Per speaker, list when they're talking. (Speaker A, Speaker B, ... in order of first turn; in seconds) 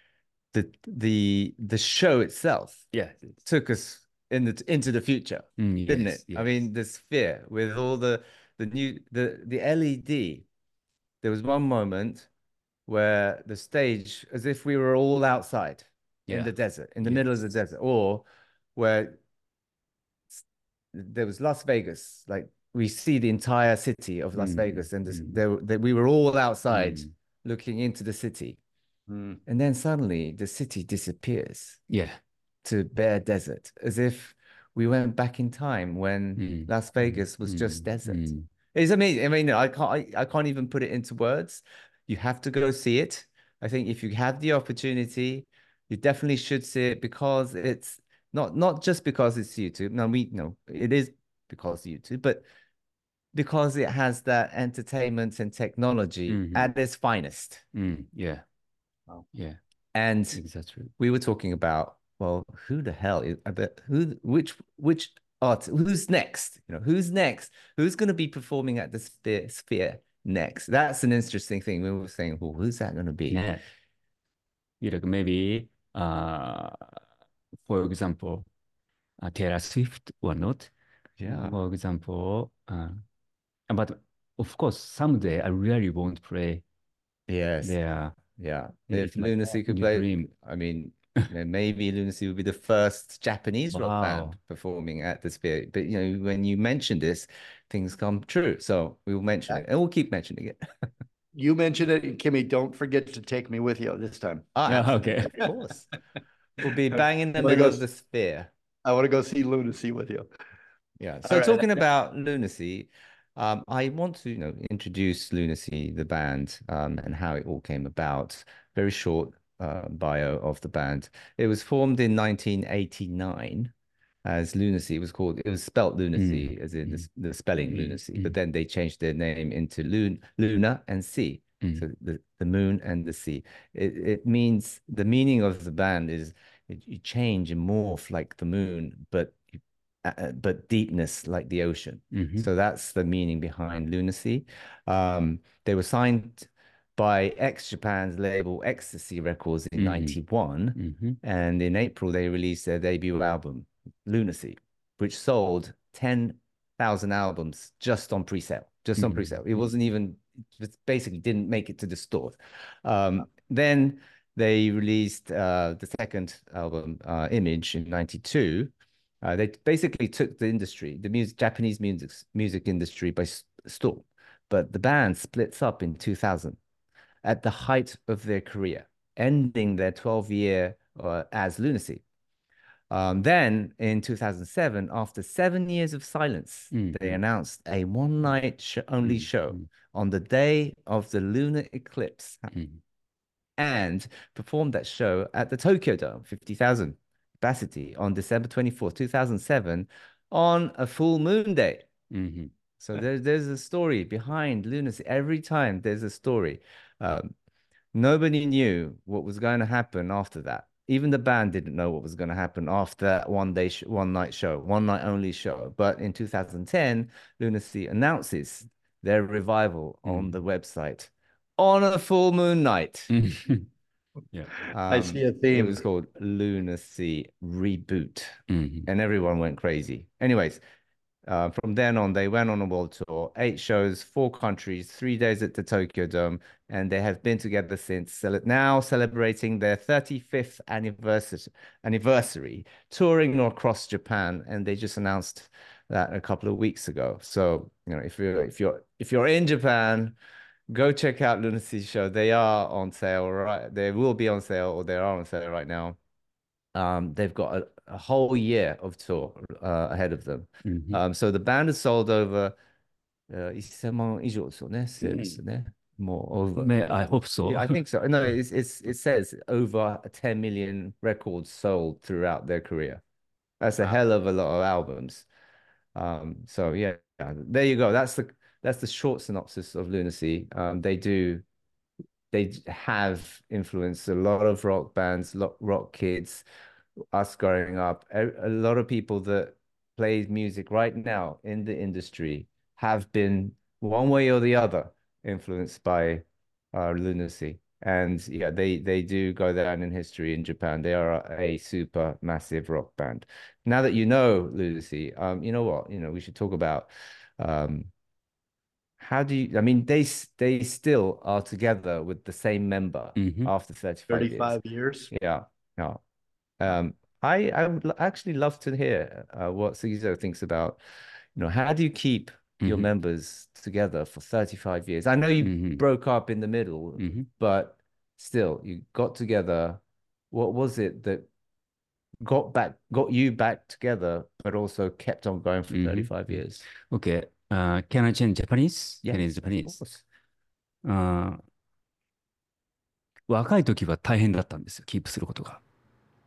Speaker A: 0.5-2.9, 3.4-10.4, 11.2-12.3, 12.9-19.2, 20.3-28.6, 29.4-31.8, 32.6-52.5, 53.3-57.6, 59.9-60.4, 61.0-73.4, 81.2-81.5, 87.3-87.8, 88.3-100.7, 104.5-105.9, 106.6-108.5, 111.0-123.7, 124.2-139.4, 140.0-176.6, 177.2-182.0, 182.9-192.5, 193.6-201.9, 202.8-207.3, 207.9-223.1, 224.7-230.6, 231.2-250.2, 250.7-256.0, 256.7-262.5, 263.3-273.0, 273.6-275.3, 275.9-281.4, 282.3-286.4, 287.1-307.9, 309.0-314.6, 315.1-316.0, 316.6-320.8, 321.3-331.3, 332.2-336.6, 339.0-340.0
Speaker B: 2.9-3.4, 5.6-6.6, 24.4-25.4, 26.7-27.1, 31.9-32.2, 36.4-38.5, 56.3-56.7, 57.7-58.4, 59.3-59.6, 60.3-60.9, 73.3-73.6, 74.8-77.0, 77.6-78.5, 79.2-80.7, 81.3-83.0, 83.7-86.6, 87.6-88.2, 88.9-90.3, 93.7-94.4, 104.7-105.4, 126.2-127.1, 127.6-128.3, 131.6-131.8, 142.1-142.5, 149.8-150.2, 150.8-151.2, 159.0-159.6, 186.7-187.2, 189.0-189.7, 192.5-192.8, 202.1-202.5, 220.1-220.3, 223.1-223.7, 228.5-228.9, 260.6-261.0, 266.5-267.7, 313.1-313.5, 322.6-322.9, 325.4-325.8, 327.0-327.3, 335.7-336.1, 336.7-339.8, 340.8-341.4, 343.3-345.6
Speaker C: 29.1-29.4, 101.3-104.5, 107.0-107.8, 108.8-110.3, 111.2-111.8, 224.9-225.8, 314.1-315.1